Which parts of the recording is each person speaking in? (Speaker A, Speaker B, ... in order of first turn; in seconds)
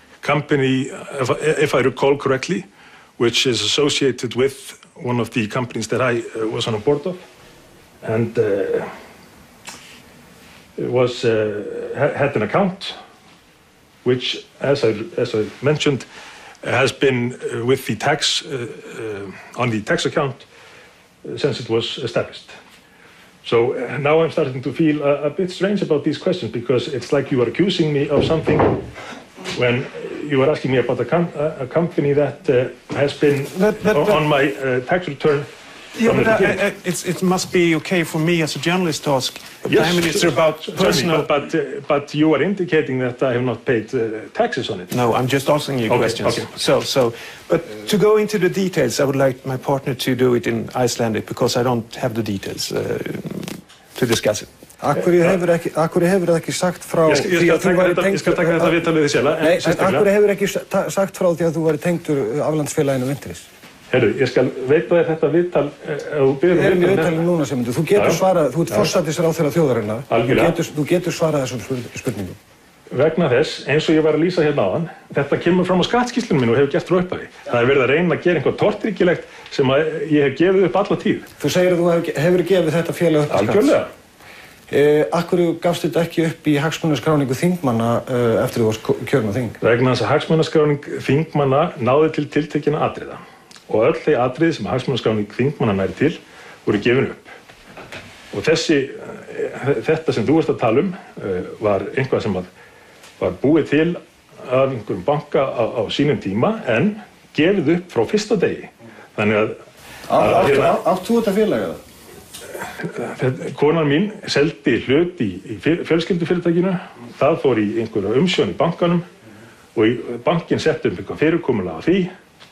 Speaker A: 0.2-2.7, 3.2-7.2, 8.0-8.9, 10.8-12.9, 14.0-16.1, 16.6-20.4, 21.2-22.5, 23.4-28.8, 29.5-35.5, 36.0-36.6, 39.6-44.9, 45.9-46.5, 55.0-55.4, 57.0-60.1, 63.9-67.3, 67.9-69.0, 70.1-70.7, 72.9-81.3, 83.3-83.9, 89.6-97.3, 98.3-102.5, 103.2-109.5, 110.1-110.8, 112.8-119.0, 119.7-122.1
Speaker B: 33.5-34.2, 36.0-41.4, 44.9-54.5
Speaker C: 54.8-58.8, 59.4-63.5, 66.5-72.3, 81.4-83.8, 84.7-89.6, 110.1-111.8